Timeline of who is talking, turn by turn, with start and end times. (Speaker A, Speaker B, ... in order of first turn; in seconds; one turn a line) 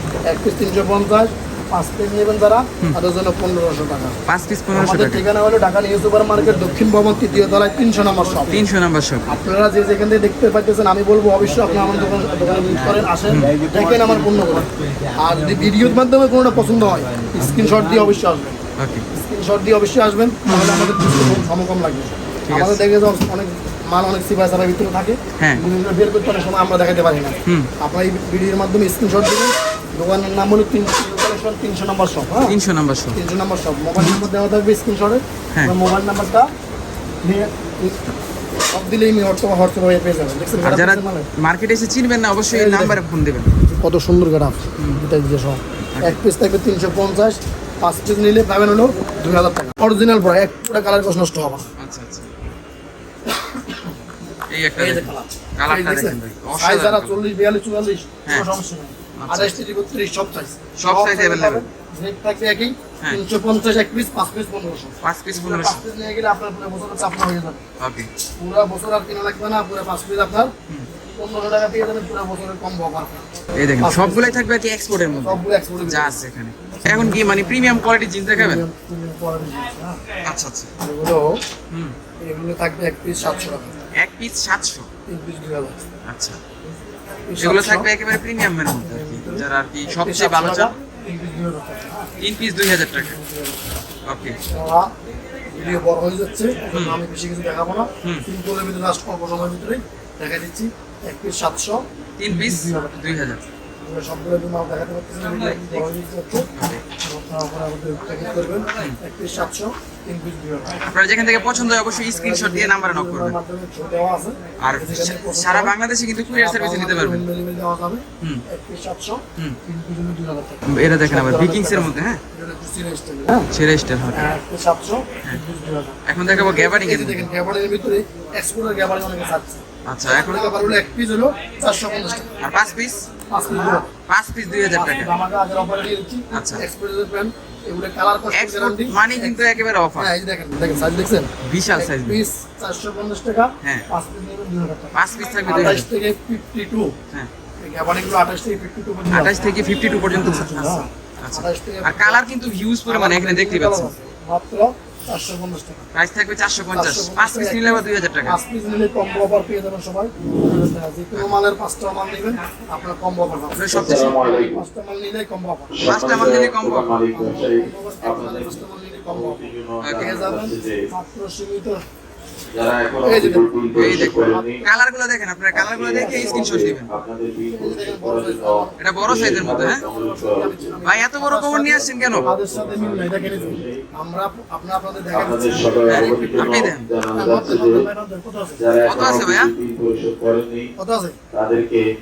Speaker A: 0.2-4.2
Speaker B: 4.3-5.2
Speaker A: 4.7-8.6
Speaker B: 8.5-9.4
Speaker A: 9.3-18.6
Speaker B: 13.3-13.6
Speaker B: 18.8-19.1
Speaker A: 19.1-32.5
Speaker B: 20.4-21.4
Speaker B: 22.5-22.8
Speaker B: 32.4-33.2
Speaker A: 33.1-36.5
Speaker A: 37.2-38.1
Speaker A: 38.7-41.3
Speaker B: 40.6-43.5
Speaker A: 42.5-43.0
Speaker A: 43.6-51.7
Speaker B: 51.8-52.3
Speaker A: 53.2-54.0
Speaker B: 54.5-57.1
Speaker A: 54.8-67.6
Speaker B: 58.2-58.5
Speaker B: 59.2-59.6
Speaker B: 60.8-61.6
Speaker B: 65.0-65.8
Speaker B: 67.8-68.1
Speaker A: 68.4-70.5
Speaker A: 71.1-73.2
Speaker B: 73.6-78.6
Speaker A: 73.8-74.4
Speaker A: 75.1-76.1
Speaker A: 76.8-77.4
Speaker A: 78.3-80.0
Speaker B: 80.2-80.7
Speaker A: 80.8-81.4
Speaker A: 82.2-83.7
Speaker B: 84.0-84.9
Speaker A: 85.1-85.8
Speaker B: 86.1-86.4
Speaker A: 87.3-87.9
Speaker B: 87.4-90.7
Speaker A: 88.8-93.6
Speaker B: 92.2-93.2
Speaker B: 94.0-94.4
Speaker A: 94.5-94.9
Speaker A: 95.5-103.3
Speaker B: 96.7-97.0
Speaker B: 102.2-103.4
Speaker A: 103.8-110.9
Speaker B: 106.5-106.8
Speaker B: 110.8-113.4
Speaker A: 112.0-115.7
Speaker B: 114.6-117.2
Speaker A: 116.3-123.5
Speaker B: 120.6-122.2
Speaker B: 123.5-124.3
Speaker A: 124.1-132.3
Speaker B: 126.0-127.3
Speaker B: 129.8-130.5
Speaker B: 132.4-133.1
Speaker A: 133.3-133.9
Speaker B: 134.1-135.1
Speaker A: 134.7-146.9
Speaker B: 136.3-136.6
Speaker B: 138.3-140.1
Speaker B: 141.4-142.2
Speaker B: 143.6-143.9
Speaker B: 144.9-145.9
Speaker A: 147.6-152.3
Speaker B: 149.1-153.9
Speaker A: 152.8-155.9
Speaker B: 155.9-158.4
Speaker A: 156.7-165.8
Speaker B: 163.5-164.1
Speaker C: 163.7-164.6
Speaker C: 165.7-168.6
Speaker B: 165.8-166.9
Speaker A: 167.1-169.4
Speaker C: 169.1-170.8
Speaker B: 169.8-170.2
Speaker A: 169.9-171.8
Speaker C: 172.5-174.6
Speaker A: 173.0-174.7
Speaker B: 173.7-176.9
Speaker C: 175.5-180.5
Speaker A: 176.0-176.7
Speaker A: 177.5-188.6
Speaker B: 178.8-179.8
Speaker B: 180.8-182.3
Speaker C: 181.7-183.8
Speaker C: 185.1-187.8
Speaker B: 185.9-186.9
Speaker C: 188.6-190.7
Speaker B: 188.8-189.5
Speaker A: 190.8-191.2
Speaker C: 191.3-191.8